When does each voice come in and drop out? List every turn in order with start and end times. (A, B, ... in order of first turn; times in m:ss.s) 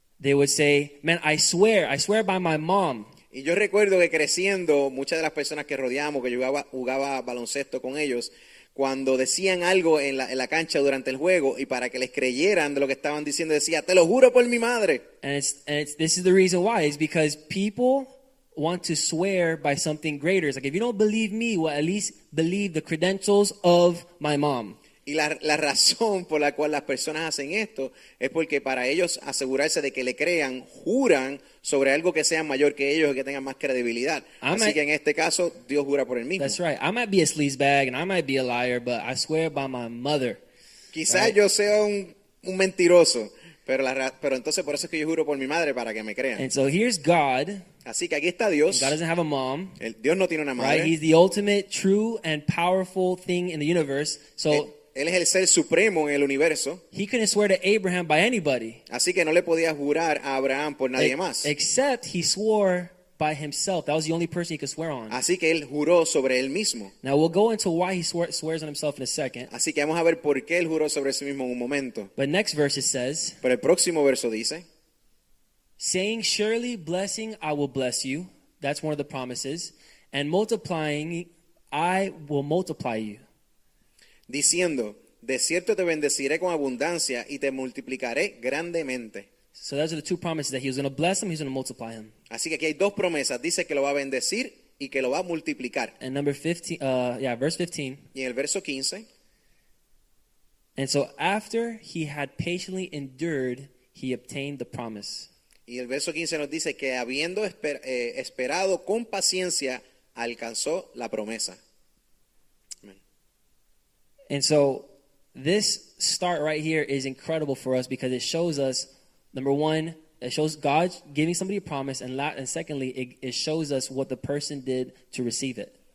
0:00.2-0:03.1 A
0:03.3-0:15.1 B
0:15.2-0:24.8 A
0:25.0-0:36.6 B
0:34.4-0:34.8 A
0:36.4-0:40.4 A
0:40.9-0:46.4 B
0:41.1-0:41.3 A
0:46.4-0:47.6 A
0:47.8-0:49.0 B
0:48.7-0:49.8 A
0:49.8-0:50.9 B
0:50.6-0:54.7 A
0:54.5-0:56.8 B
0:56.9-0:58.8 A
0:58.9-1:01.5 B
1:01.0-1:05.2 A
1:05.1-1:06.9 B
1:07.0-1:09.5 A
1:09.5-1:12.1 B
1:12.2-1:13.4 A
1:13.4-1:14.6 B
1:15.8-1:23.2 A
1:24.3-1:29.3 B
1:29.6-1:32.1 A
1:32.3-1:36.0 B
1:36.0-1:38.0 A
1:38.1-1:39.1 B
1:40.8-1:45.3 A
1:45.7-1:51.6 B
1:54.3-2:05.7 A